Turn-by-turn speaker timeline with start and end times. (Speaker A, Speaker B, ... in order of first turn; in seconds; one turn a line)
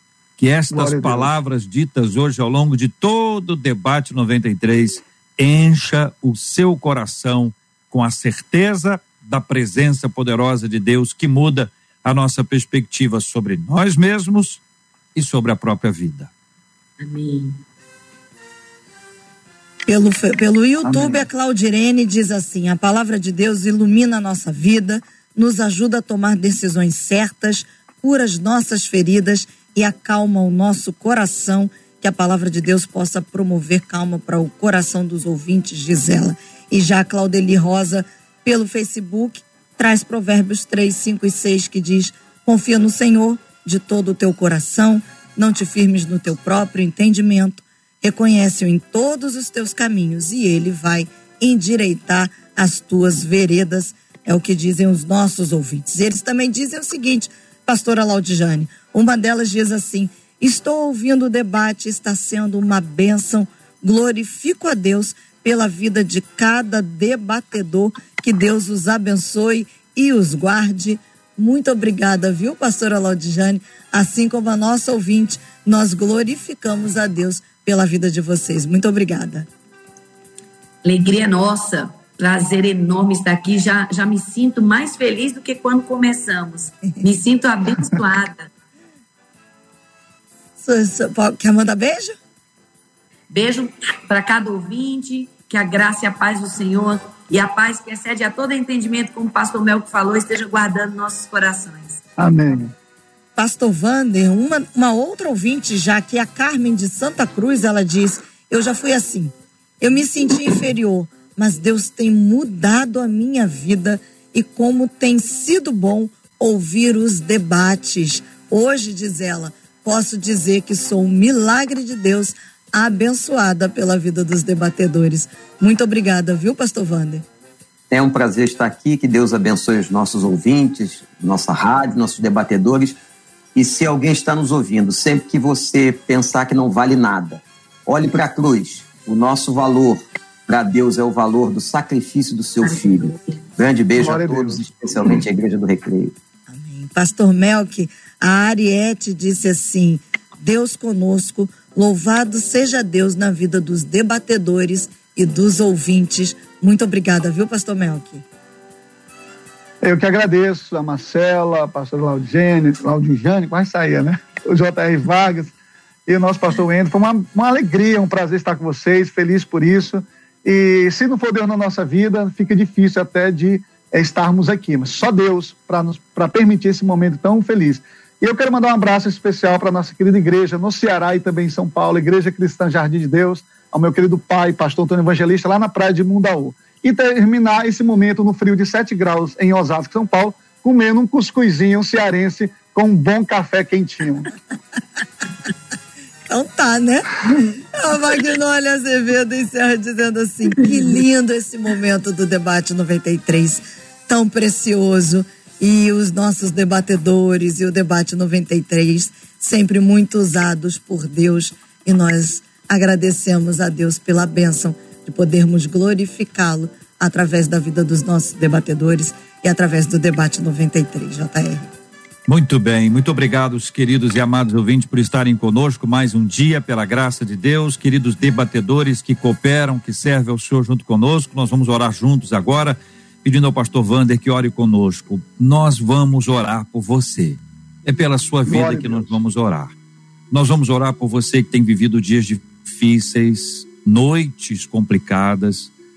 Speaker A: 0.4-14.6
Speaker B: 0.7-1.3
Speaker A: 15.1-16.3
Speaker C: 17.0-17.6
Speaker D: 19.9-79.5
Speaker B: 20.9-21.3
Speaker C: 80.8-88.5
Speaker D: 90.6-92.2
Speaker C: 93.3-102.0
Speaker B: 102.2-102.7
Speaker D: 103.4-127.2
Speaker E: 127.9-133.0
Speaker E: 133.6-146.1
Speaker C: 142.6-143.4
Speaker B: 144.0-144.6
Speaker D: 146.5-158.2
Speaker B: 159.8-165.6
Speaker B: 166.1-194.3
Speaker D: 196.3-197.2
Speaker D: 197.8-221.7
Speaker A: 222.3-239.8
Speaker B: 238.4-239.2
Speaker A: 240.3-245.7